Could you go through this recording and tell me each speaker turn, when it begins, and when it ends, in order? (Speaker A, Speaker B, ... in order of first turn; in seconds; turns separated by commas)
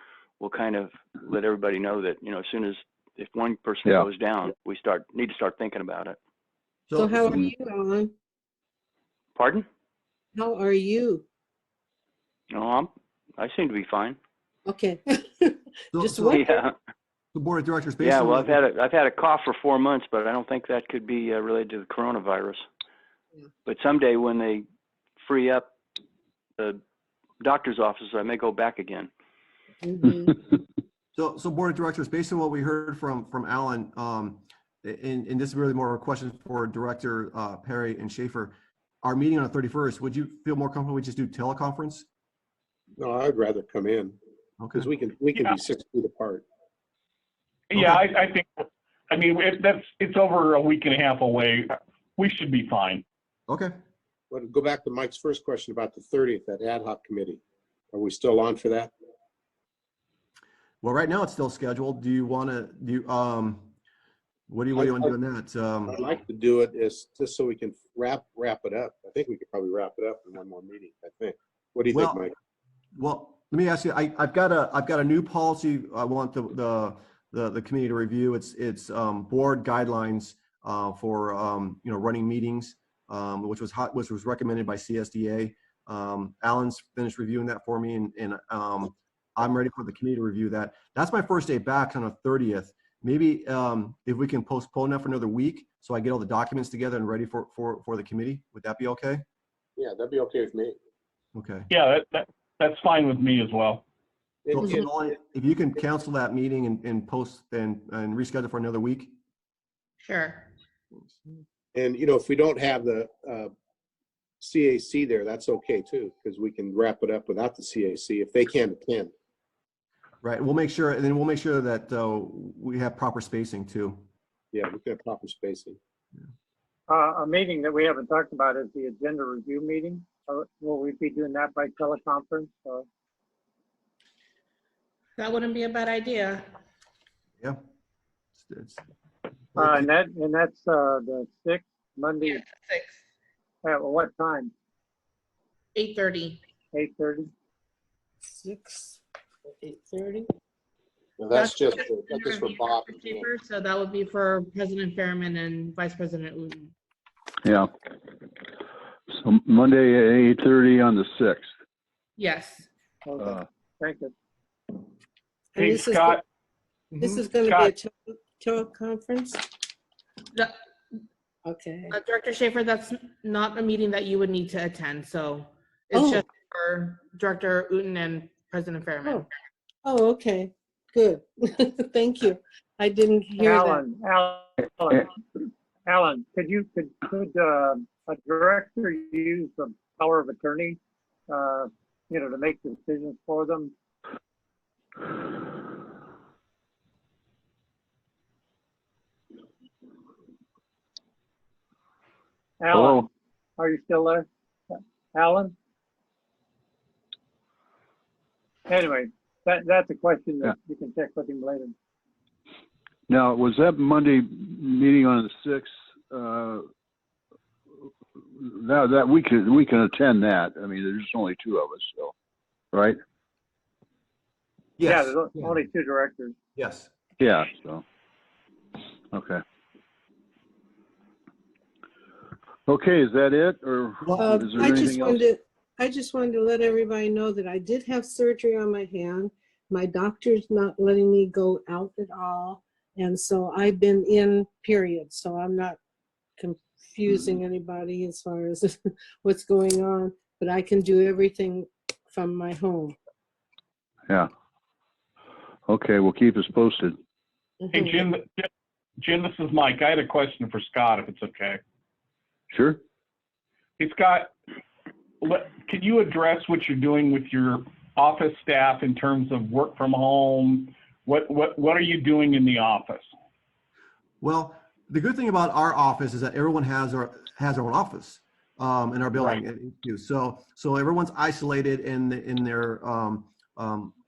Speaker A: 0.4-6.2, Speaker B: 6.9-7.5, Speaker C: 6.9-8.1, Speaker A: 9.3-9.7, Speaker C: 10.3-11.2, Speaker A: 12.5-14.2, Speaker C: 14.7-16.6, Speaker B: 15.9-16.4, Speaker A: 16.2-16.7, Speaker B: 17.3-18.6, Speaker A: 18.0-22.6, Speaker A: 23.6-24.6, Speaker A: 25.2-25.7, Speaker A: 27.4-29.1, Speaker C: 29.8-30.3, Speaker B: 31.1-42.0, Speaker D: 43.0-44.1, Speaker B: 44.6-44.9, Speaker D: 44.7-46.4, Speaker E: 47.7-53.0, Speaker B: 47.7-48.0, Speaker B: 53.5-53.7, Speaker D: 54.3-58.9, Speaker B: 60.8-63.7, Speaker B: 64.5-66.0, Speaker D: 64.8-65.1, Speaker D: 65.9-72.3, Speaker B: 71.9-72.2, Speaker B: 73.0-99.2, Speaker D: 99.8-100.8, Speaker B: 101.3-101.7, Speaker E: 101.7-103.8, Speaker D: 104.5-104.7, Speaker B: 104.5-109.1, Speaker F: 110.0-110.5, Speaker D: 111.7-113.5, Speaker D: 114.4-119.1, Speaker B: 120.2-124.0, Speaker D: 124.5-125.8, Speaker G: 126.9-132.8, Speaker F: 135.2-136.4, Speaker B: 138.4-138.8, Speaker B: 139.6-139.8, Speaker G: 139.6-142.4, Speaker F: 142.2-142.9, Speaker G: 143.6-144.5, Speaker F: 145.7-146.4, Speaker G: 146.7-147.3, Speaker C: 148.3-149.0, Speaker C: 149.6-150.2, Speaker D: 151.2-153.3, Speaker F: 151.3-156.7, Speaker H: 157.4-157.7, Speaker H: 159.1-161.5, Speaker F: 162.2-162.7, Speaker G: 163.0-164.1, Speaker C: 165.5-166.2, Speaker E: 165.6-166.2, Speaker C: 166.9-169.4, Speaker E: 167.0-167.7, Speaker C: 171.4-171.9, Speaker F: 171.9-179.2, Speaker C: 175.9-176.2, Speaker C: 179.8-183.8, Speaker G: 183.4-193.7, Speaker G: 202.6-205.5, Speaker H: 202.7-203.1, Speaker G: 208.7-211.7, Speaker H: 213.1-216.6, Speaker H: 218.4-222.1, Speaker H: 222.7-223.0, Speaker B: 224.8-225.6, Speaker G: 224.8-226.3, Speaker B: 226.6-226.9, Speaker H: 227.2-227.8, Speaker H: 229.1-229.4, Speaker H: 232.7-235.3, Speaker C: 234.2-245.8, Speaker C: 246.4-252.9, Speaker H: 255.7-256.9, Speaker C: 257.6-258.0, Speaker E: 257.7-258.5, Speaker E: 259.0-261.6, Speaker H: 262.5-262.8, Speaker E: 263.8-264.3, Speaker E: 265.2-273.1, Speaker B: 274.2-283.9, Speaker E: 279.1-279.4